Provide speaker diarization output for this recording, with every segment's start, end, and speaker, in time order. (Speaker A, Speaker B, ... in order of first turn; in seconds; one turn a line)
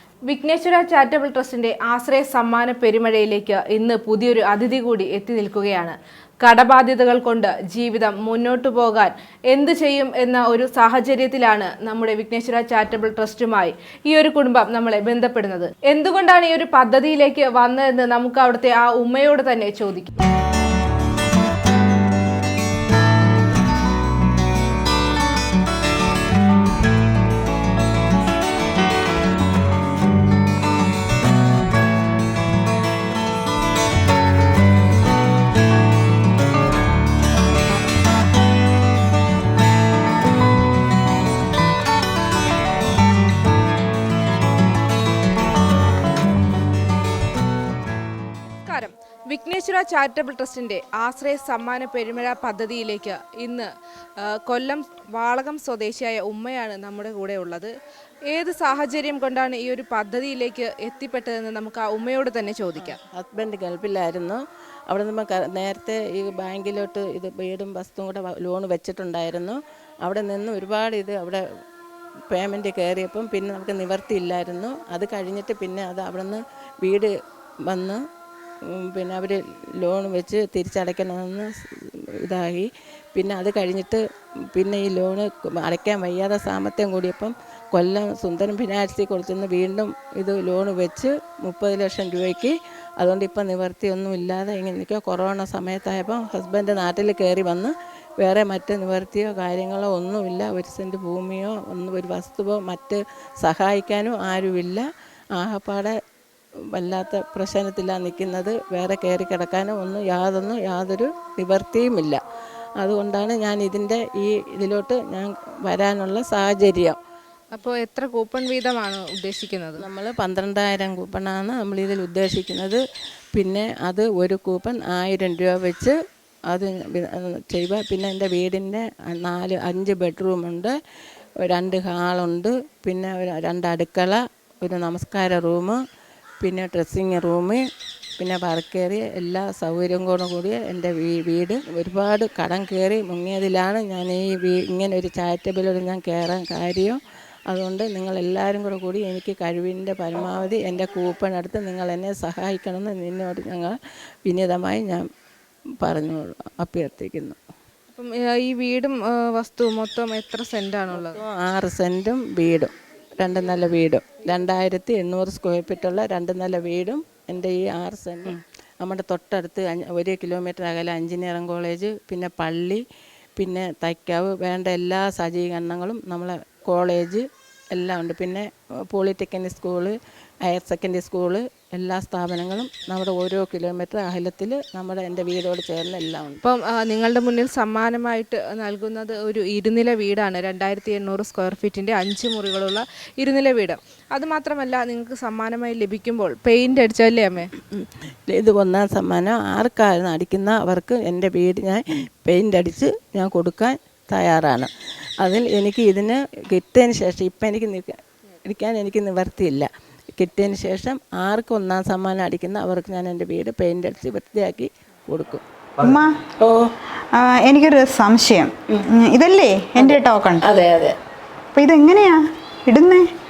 Speaker A: 0.3-20.1
Speaker A: 48.7-57.7
Speaker A: 58.3-63.0
Speaker B: 62.8-71.4
Speaker B: 72.3-77.1
Speaker B: 77.7-78.0
Speaker B: 78.7-84.0
Speaker B: 84.5-104.8
Speaker B: 105.4-106.0
Speaker B: 106.7-112.2
Speaker B: 112.8-117.0
Speaker A: 117.5-119.9
Speaker B: 119.8-122.8
Speaker B: 123.3-125.9
Speaker B: 126.5-130.7
Speaker B: 131.4-135.8
Speaker B: 136.4-137.6
Speaker B: 138.2-147.0
Speaker B: 147.5-155.1
Speaker B: 155.8-157.4
Speaker A: 157.9-161.2
Speaker B: 160.9-172.8
Speaker B: 173.4-186.4
Speaker A: 186.4-197.5
Speaker B: 197.7-204.7
Speaker B: 205.2-215.4
Speaker C: 215.8-216.2
Speaker B: 216.4-216.7
Speaker C: 217.1-220.4
Speaker B: 219.8-220.9
Speaker C: 221.5-223.1